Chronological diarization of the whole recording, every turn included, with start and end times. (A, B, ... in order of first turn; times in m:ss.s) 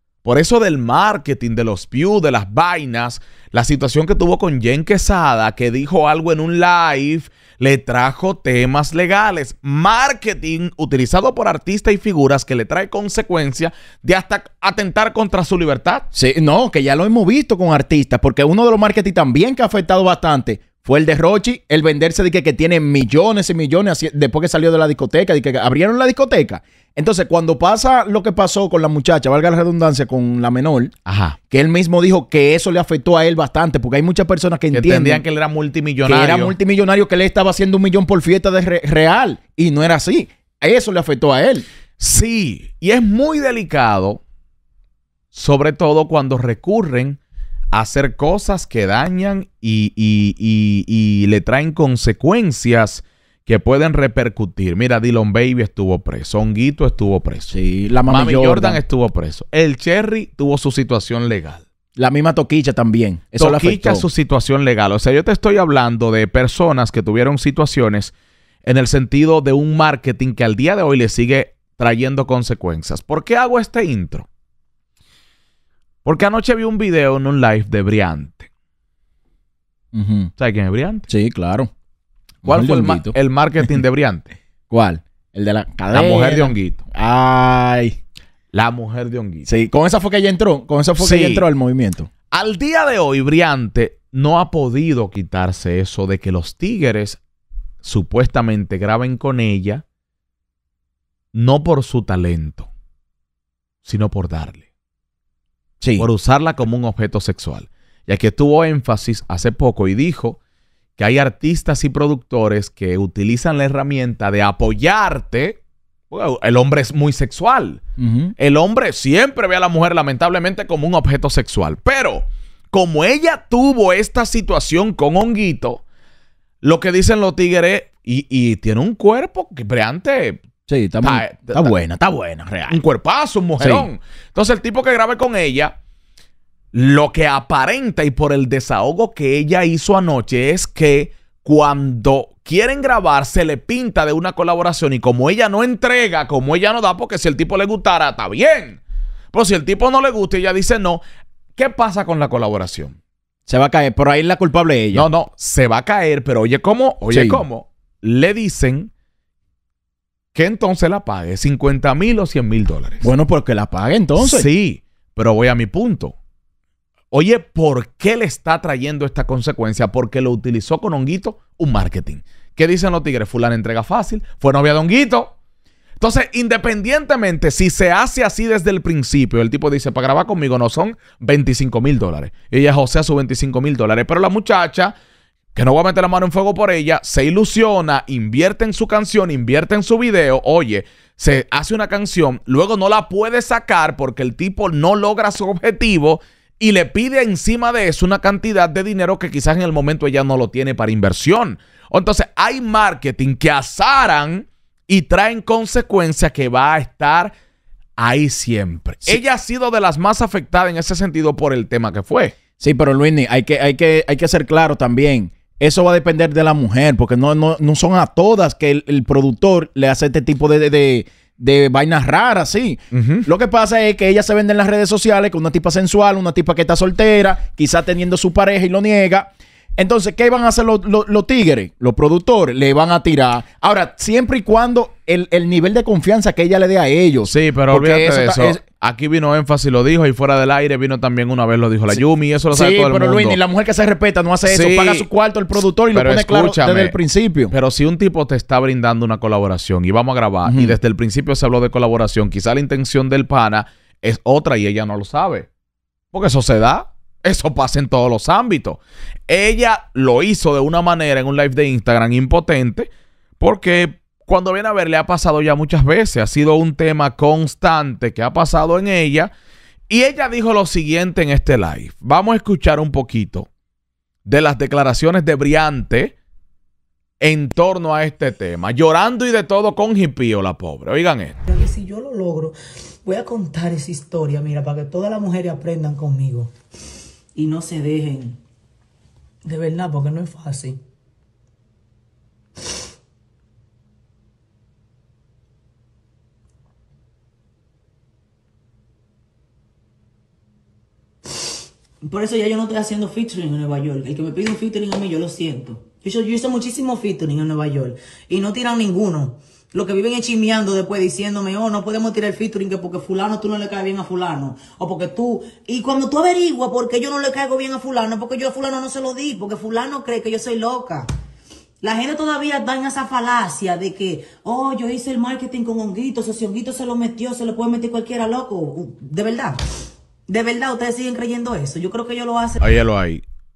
0:00.2-0:16.0 A
0:16.1-0:30.9 B
0:31.0-0:31.4 A
0:31.5-0:35.2 B
0:34.7-0:36.6 A
0:36.0-0:41.6 B
0:42.0-0:44.2 A
0:45.3-0:47.2 A
0:47.7-0:57.6 A
0:57.5-0:58.8 B
0:58.1-1:01.6 A
1:02.0-1:04.0 B
1:03.4-1:08.1 A
1:08.6-1:14.3 A
1:16.0-1:18.5 A
1:19.9-1:20.3 B
1:20.4-1:21.0 A
1:21.1-1:21.7 B
1:22.4-1:23.1 B
1:22.4-1:24.3 A
1:24.7-1:27.9 B
1:25.9-1:26.8 A
1:28.5-1:29.5 A
1:29.5-1:32.1 B
1:31.0-1:31.4 A
1:32.3-1:37.2 A
1:37.8-1:39.8 A
1:41.3-1:42.7 A
1:43.8-1:44.6 A
1:45.8-1:46.1 B
1:46.0-1:50.4 A
1:51.0-1:55.6 A
1:56.1-1:57.8 A
1:58.0-1:58.3 B
1:58.4-2:05.8 A
2:06.6-2:10.4 A
2:10.7-2:12.8 B
2:11.0-2:11.7 A
2:12.7-2:15.8 A
2:13.6-2:13.9 B
2:16.7-2:28.8 A
2:29.3-2:31.0 A
2:31.6-2:33.0 A
2:33.5-2:35.1 B
2:34.9-2:38.9 A
2:37.1-2:37.4 B
2:40.3-2:43.1 A
2:43.0-2:44.5 B
2:44.2-2:46.1 A
2:47.1-2:55.3 A
2:56.0-3:04.9 A
3:05.5-3:27.3 A
3:28.0-3:32.4 A
3:32.6-3:58.6 B
3:42.9-3:43.3 A
3:57.2-4:03.4 A
4:01.9-4:07.5 B
4:04.4-4:05.1 A
4:05.9-4:07.0 A
4:07.5-4:15.5 A
4:10.4-4:10.8 B
4:16.1-4:29.3 A
4:29.9-4:33.5 A
4:34.2-4:36.1 A
4:37.2-4:41.4 A
4:41.4-4:46.5 C
4:47.3-4:48.4 C
4:49.4-4:50.8 C
5:02.0-5:21.1 C
5:21.8-5:29.6 C
5:30.3-5:32.6 C
5:32.6-5:33.2 A